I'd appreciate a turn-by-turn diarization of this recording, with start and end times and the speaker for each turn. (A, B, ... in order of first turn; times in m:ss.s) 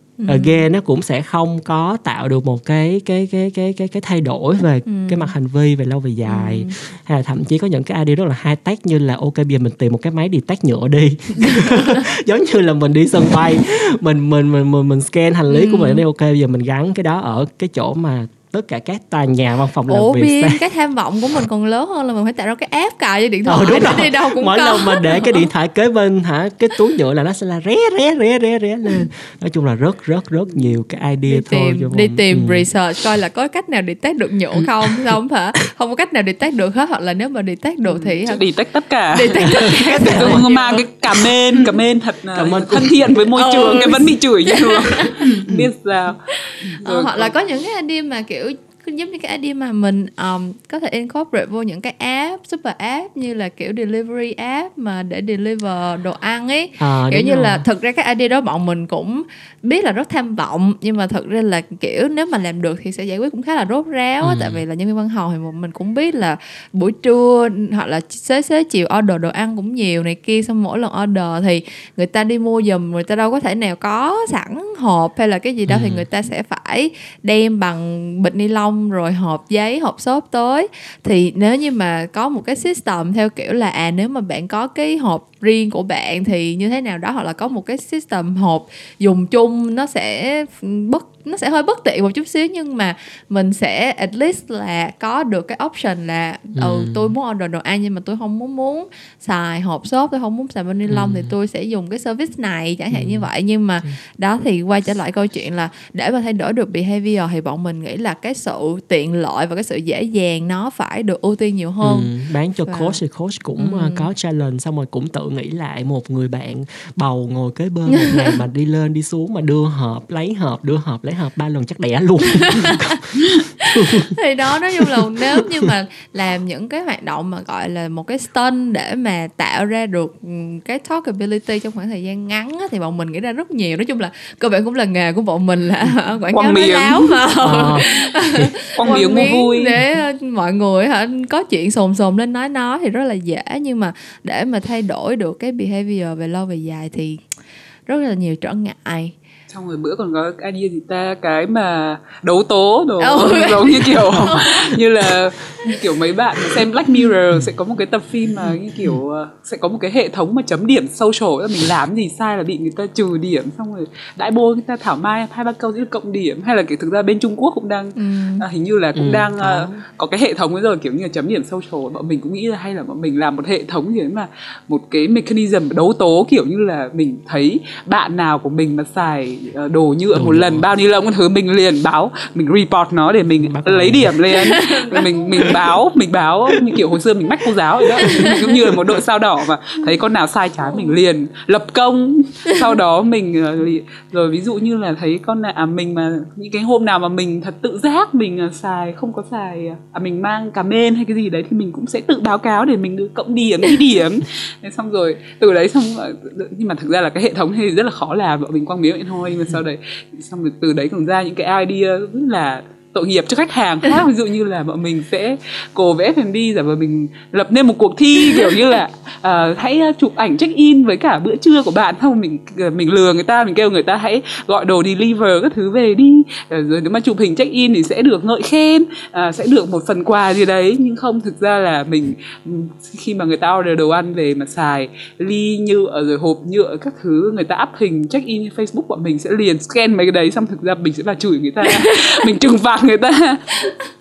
0:00.2-0:00.6 A
0:00.2-0:20.6 B
0:04.8-0:05.3 A
0:06.3-0:06.8 A
0:11.6-0:12.0 A
0:15.5-0:16.0 A
0:19.9-0:25.5 A
0:23.5-0:32.6 B
0:31.3-0:38.4 A
0:37.9-0:47.3 C
0:39.1-0:41.7 A
0:39.5-0:40.4 B
0:42.3-0:43.2 B
0:43.3-0:45.1 A
0:45.4-0:45.7 B
0:46.3-1:52.1 A
0:56.8-0:57.6 B
1:04.2-1:04.6 B
1:15.7-1:16.0 B
1:36.6-1:37.1 B
1:40.9-1:41.3 B
1:42.9-1:43.3 B
1:51.8-2:04.2 B
1:52.6-1:53.0 A
1:53.6-1:54.1 A
2:02.4-2:02.8 A
2:03.6-2:27.2 A
2:04.8-2:05.7 B
2:16.3-2:17.2 C
2:17.4-2:18.5 B
2:18.8-2:19.7 C
2:27.9-2:29.1 A
2:29.5-4:03.7 C
2:33.0-2:34.6 A
2:38.8-2:39.0 B
2:48.0-2:48.4 A
2:48.9-2:49.8 B
3:00.1-3:00.6 B
3:03.4-3:04.2 B
3:04.3-3:05.6 A
3:08.0-3:08.4 A
3:08.0-3:08.9 B
3:38.3-3:38.6 A
4:01.6-4:02.2 A